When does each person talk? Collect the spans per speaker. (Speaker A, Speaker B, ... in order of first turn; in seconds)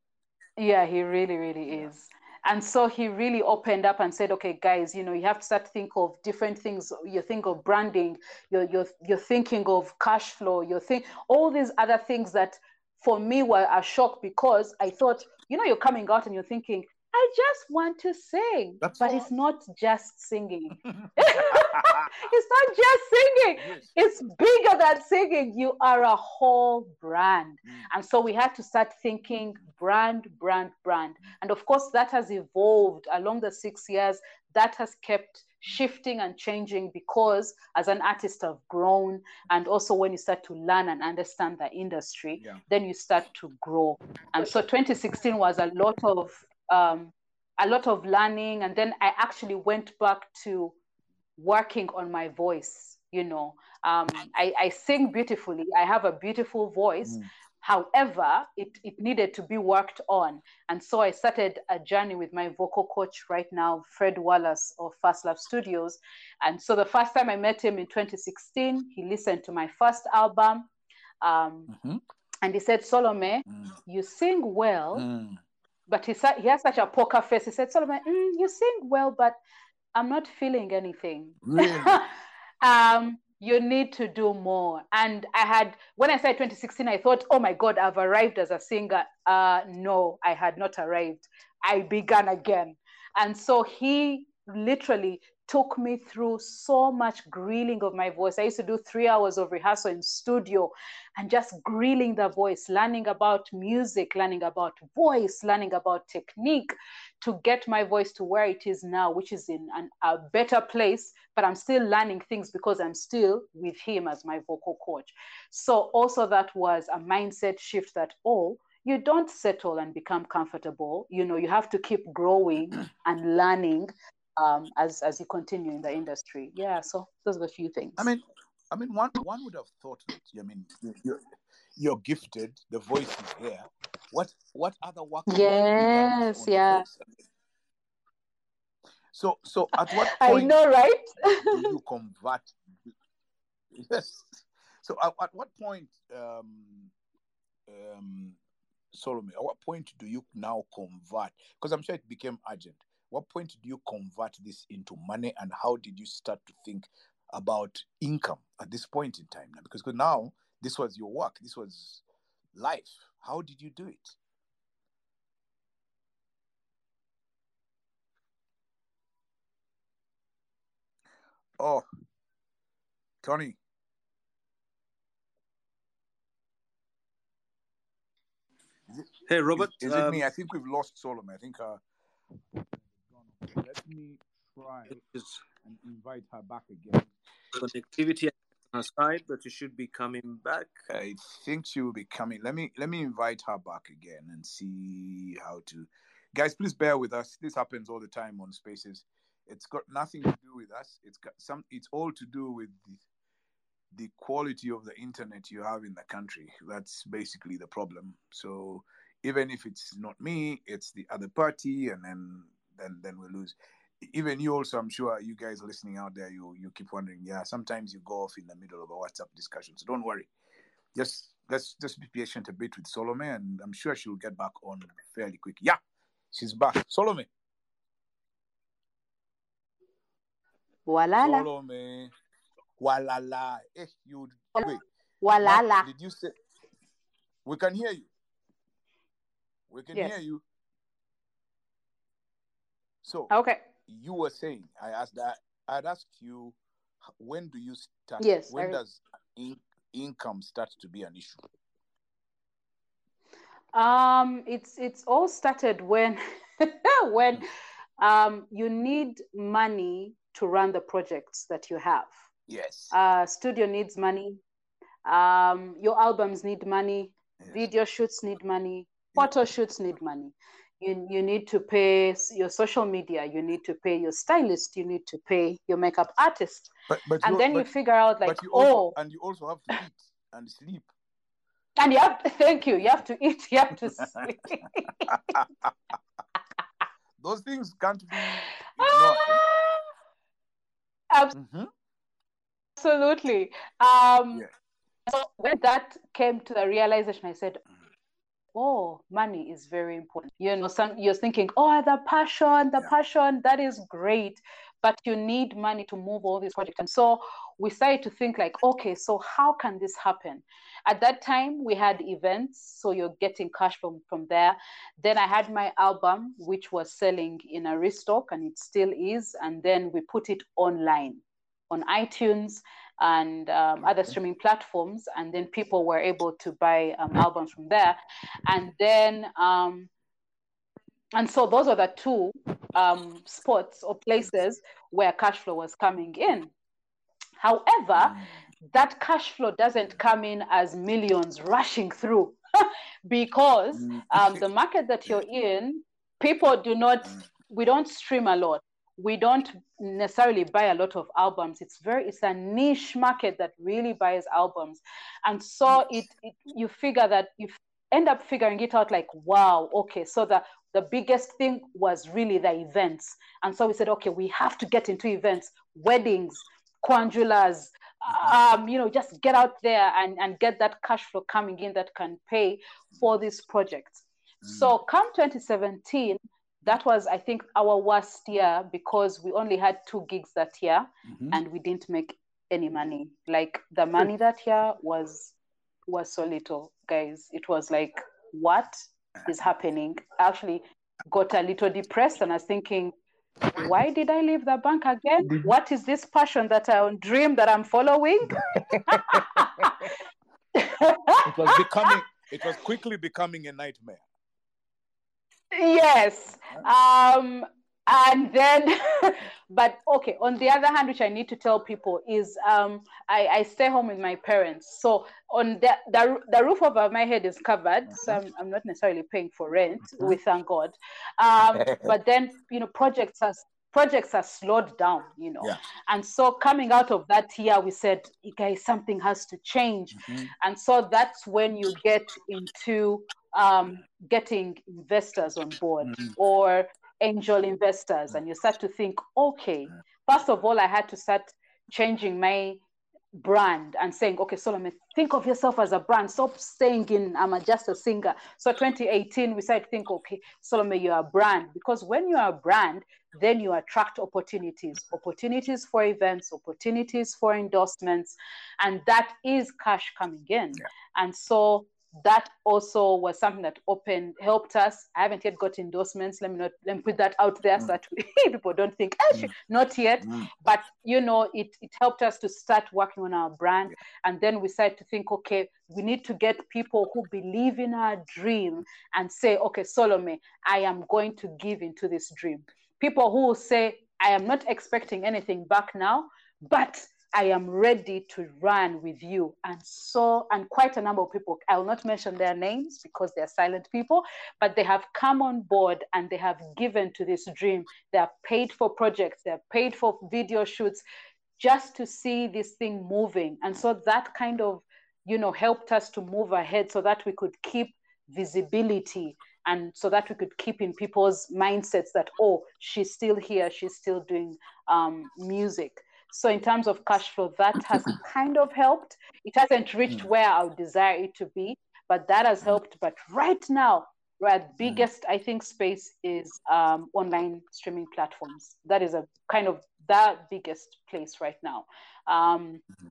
Speaker A: 0.6-50.7, 51.4-70.7, 71.2-71.7, 72.4-75.0, 75.9-79.4, 79.9-82.0, 82.6-128.1, 135.3-136.8, 139.8-141.7, 230.9-231.4, 234.6-235.9, 243.3-243.6, 248.2-248.8, 253.7-257.4, 258.0-262.1, 262.9-264.4, 265.0-279.0, 281.8-285.1, 288.8-289.9, 292.8-294.4, 295.1-297.6, 298.5-329.9, 331.1-336.5, 337.4-385.3, 385.9-392.9, 393.6-399.7, 400.5-401.6, 405.5-442.6, 443.1-500.8, 501.4-532.6
Speaker B: 18.8-19.2, 20.9-22.1, 23.6-23.9, 71.7-72.0, 74.9-75.4, 81.4-82.0, 128.0-131.2, 131.8-137.1, 139.1-140.5, 141.4-142.5, 143.7-146.9, 147.7-148.4, 148.9-162.0, 162.6-164.2, 171.6-171.8, 173.2-173.6, 178.9-181.8, 182.6-185.0, 185.5-187.1, 190.9-203.0, 203.9-220.3, 220.9-225.8, 226.3-227.3, 231.2-232.1, 232.8-234.8, 235.4-236.3, 237.4-238.1, 239.7-240.4, 243.0-243.3, 243.8-246.6, 247.2-251.4, 262.5-262.9, 267.4-267.6, 276.9-277.7, 278.2-280.9, 285.1-285.4, 287.2-289.4, 291.3-291.7, 343.8-344.4, 381.1-381.4, 398.7-399.4, 401.2-404.0, 421.6-421.9, 430.0-430.3, 470.0-470.3
Speaker C: 179.3-180.3, 185.0-185.4, 187.6-190.8